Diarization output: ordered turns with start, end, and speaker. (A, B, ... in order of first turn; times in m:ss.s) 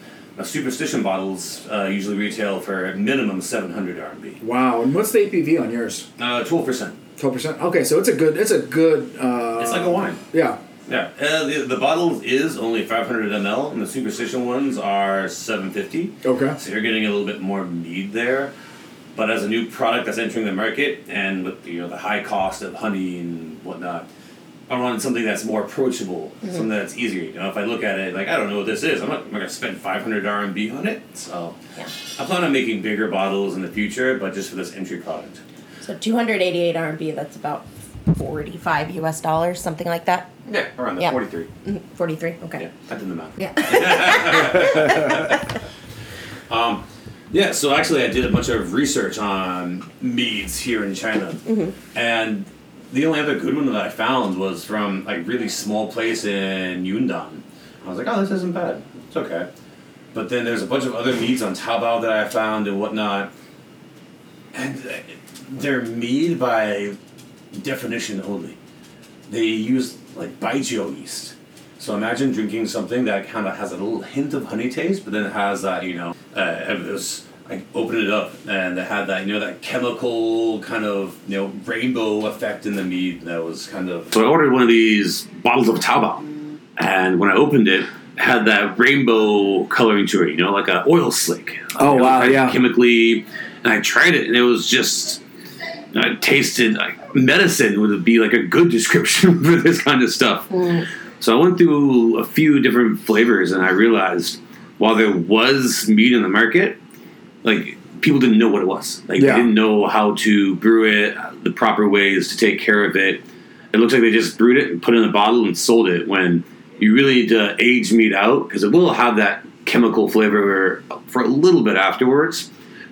0:00.4-0:04.4 A
0:04.4-0:06.1 B
0:06.2-0:07.0 A
0:07.2-0:10.6 B
0:09.6-0:10.2 A
0:10.9-0:18.5 A
0:16.2-0:16.6 B
0:19.2-0:24.1 A
0:24.7-0:31.6 A
0:32.2-0:35.4 A
0:35.8-0:40.3 C
0:40.5-0:41.5 A
0:41.0-0:42.7 C
0:42.6-0:45.4 A
0:43.4-0:45.4 C
0:46.5-0:59.5 A
0:51.5-0:51.8 C
1:00.1-1:03.3 A
1:04.5-1:07.0 A
1:07.5-1:08.6 A
1:09.3-1:35.2 A
1:31.8-1:32.6 B
1:35.9-1:40.6 A
1:40.5-1:40.8 C
1:41.2-1:46.8 A
1:47.4-1:53.2 A
1:49.2-1:49.5 B
1:53.7-2:02.5 A